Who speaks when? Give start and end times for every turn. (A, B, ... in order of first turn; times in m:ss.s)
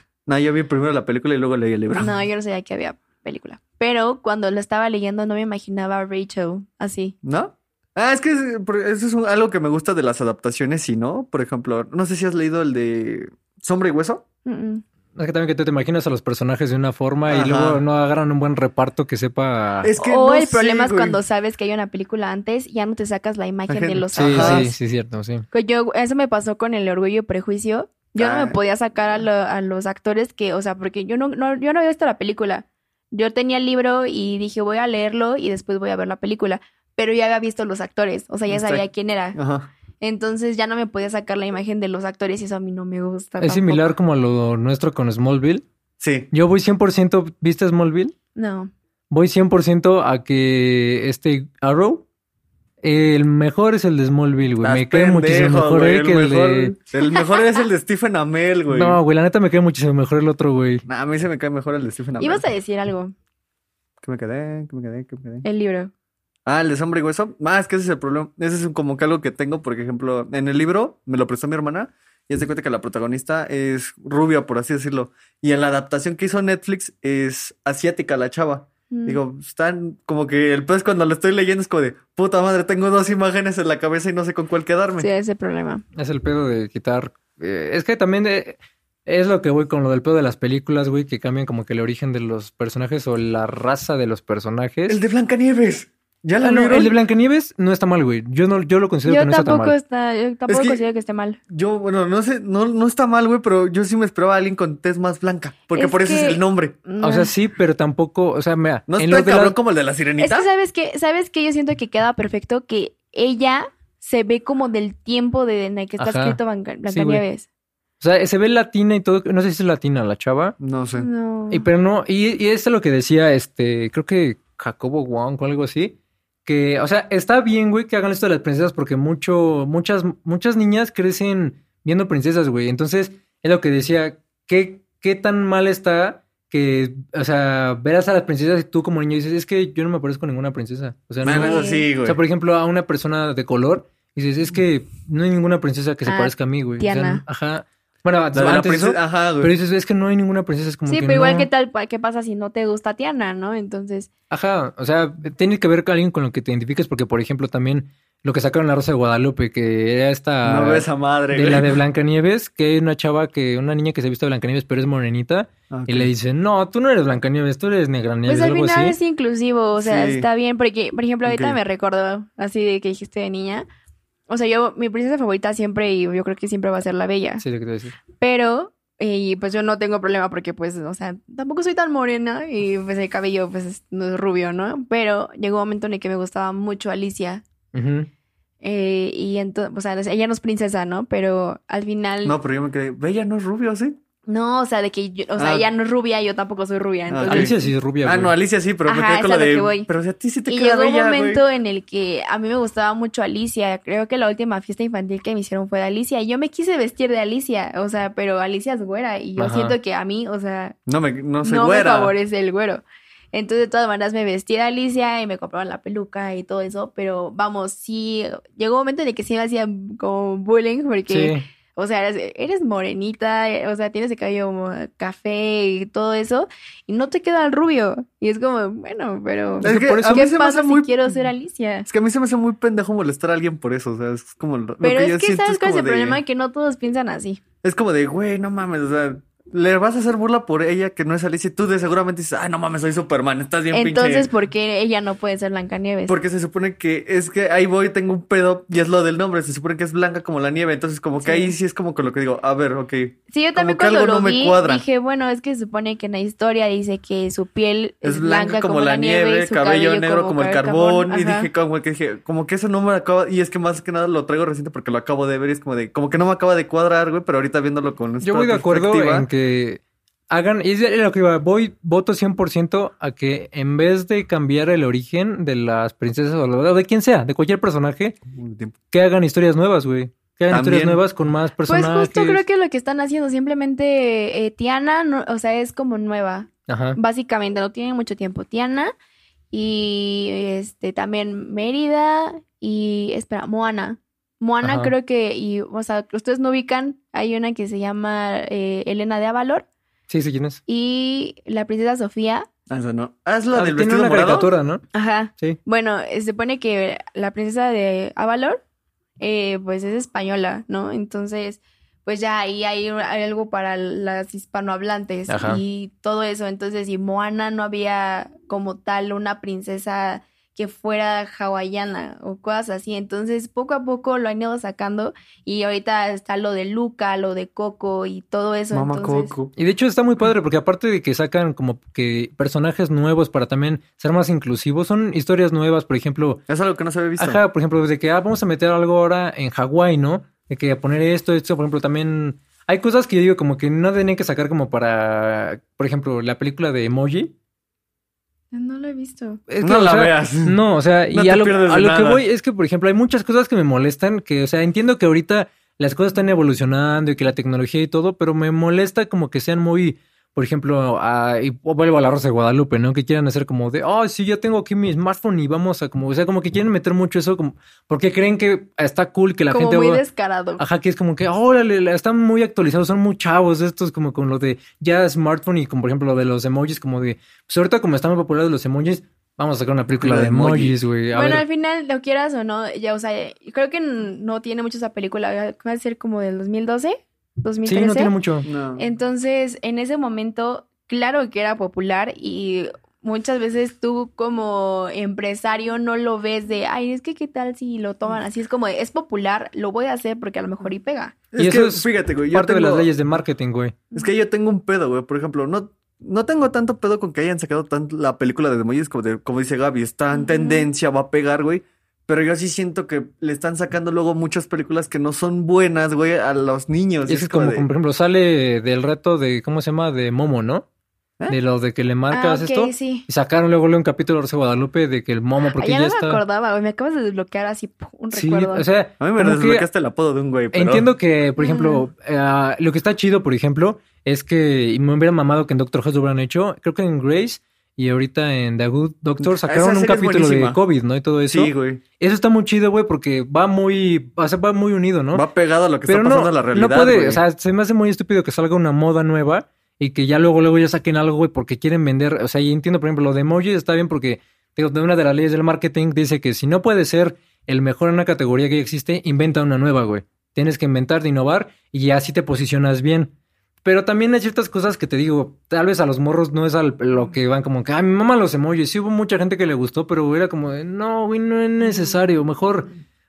0:00.3-0:02.1 A
0:02.0-0:07.2 B
0:07.2-0:14.2 A
0:14.5-0:14.8 B
0:15.2-0:19.9 C
0:17.3-0:17.8 A
0:19.8-0:21.2 A
0:20.0-0:24.7 B
0:23.7-0:24.7 A
0:24.2-0:25.4 C
0:25.5-0:39.4 B
0:28.2-0:28.6 A
0:38.5-0:39.7 A
0:40.0-0:43.9 B
0:43.4-0:45.6 C
0:46.0-0:46.3 A
0:46.3-0:48.1 C
0:48.4-0:48.7 B
0:49.1-0:52.0 C
0:52.8-0:56.7 C
0:54.6-0:59.0 A
0:57.0-0:57.6 B
0:58.7-1:00.8 C
1:00.9-1:02.4 A
1:02.2-1:03.1 B
1:04.0-1:05.4 A
1:05.4-1:05.9 B
1:06.5-1:25.1 A
1:18.9-1:19.2 B
1:25.0-1:25.8 B
1:26.0-1:35.0 C
1:34.9-1:37.0 A
1:36.4-1:39.8 C
1:39.1-1:41.4 B
1:40.5-1:40.8 A
1:41.5-1:46.8 A
1:45.7-1:47.3 B
1:47.0-1:49.6 C
1:48.9-1:50.5 A
1:50.2-1:57.5 B
1:56.0-1:57.2 C
1:58.0-2:00.6 C
2:00.6-2:01.1 A
2:01.0-2:01.7 B
2:01.5-2:31.5 C
2:21.2-2:22.2 A
2:21.3-2:21.9 B
2:26.1-2:27.2 B
2:28.3-2:29.5 A
2:30.9-2:34.1 B
2:34.3-2:49.0 C
2:40.4-2:41.8 A
2:45.7-2:46.1 A
2:48.3-2:53.7 B
2:49.8-2:50.3 A
2:51.2-2:51.6 A
2:54.3-2:57.4 B
2:57.4-2:58.0 C
2:58.2-3:07.4 B
3:07.7-3:08.1 C
3:08.6-3:12.4 B
3:12.2-3:14.0 A
3:14.3-3:17.7 B
3:15.4-3:15.7 A
3:17.1-3:21.4 A
3:17.3-3:18.4 C
3:18.9-3:19.9 B
3:20.5-3:30.8 B
3:29.4-3:29.8 C
3:30.9-3:32.1 A
3:31.4-3:51.9 B
3:41.1-3:41.4 C
3:49.6-3:50.9 A
3:49.6-3:50.3 C
3:51.9-3:56.2 A
3:54.8-3:57.4 B
3:57.6-4:04.3 A
4:03.7-4:06.2 B
4:06.1-4:14.8 A
4:11.2-4:11.5 B
4:13.3-4:21.5 B
4:18.0-4:29.3 A
4:28.2-4:38.2 C
4:38.3-4:38.8 A
4:38.9-4:42.4 C
4:40.5-4:41.0 A
4:41.7-4:48.9 B
4:46.7-4:47.0 C
4:49.5-4:59.7 B
4:54.6-4:54.9 C
5:00.1-5:00.6 C
5:00.7-5:02.5 B
5:02.7-5:04.5 A
5:03.5-5:04.8 C
5:04.9-5:08.6 B
5:09.2-5:29.3 B
5:15.3-5:15.6 C
5:28.7-5:29.5 A
5:29.6-5:36.4 C
5:36.5-5:37.4 A
5:37.2-5:47.3 C
5:48.5-5:49.4 B
5:49.5-6:10.0 C
5:49.6-5:50.6 A
5:51.1-5:52.2 A
6:09.5-6:10.6 B
6:10.6-6:21.4 C
6:20.0-6:20.8 A
6:21.1-6:28.1 B
6:27.7-6:28.5 C
6:28.4-6:28.8 A
6:28.8-6:41.2 B
6:41.3-6:42.9 A
6:41.4-6:43.8 C
6:43.9-6:57.7 A
6:50.1-6:50.7 B
6:57.1-7:00.7 C
7:01.3-7:06.2 C
7:02.1-7:03.1 B
7:05.6-7:08.6 B
7:08.1-7:09.7 C
7:09.0-7:10.9 A
7:10.5-7:25.2 C
7:11.4-7:11.9 B
7:19.2-7:20.6 A
7:21.3-7:21.8 A
7:25.1-7:27.2 A
7:25.9-7:43.1 C
7:43.6-7:52.7 C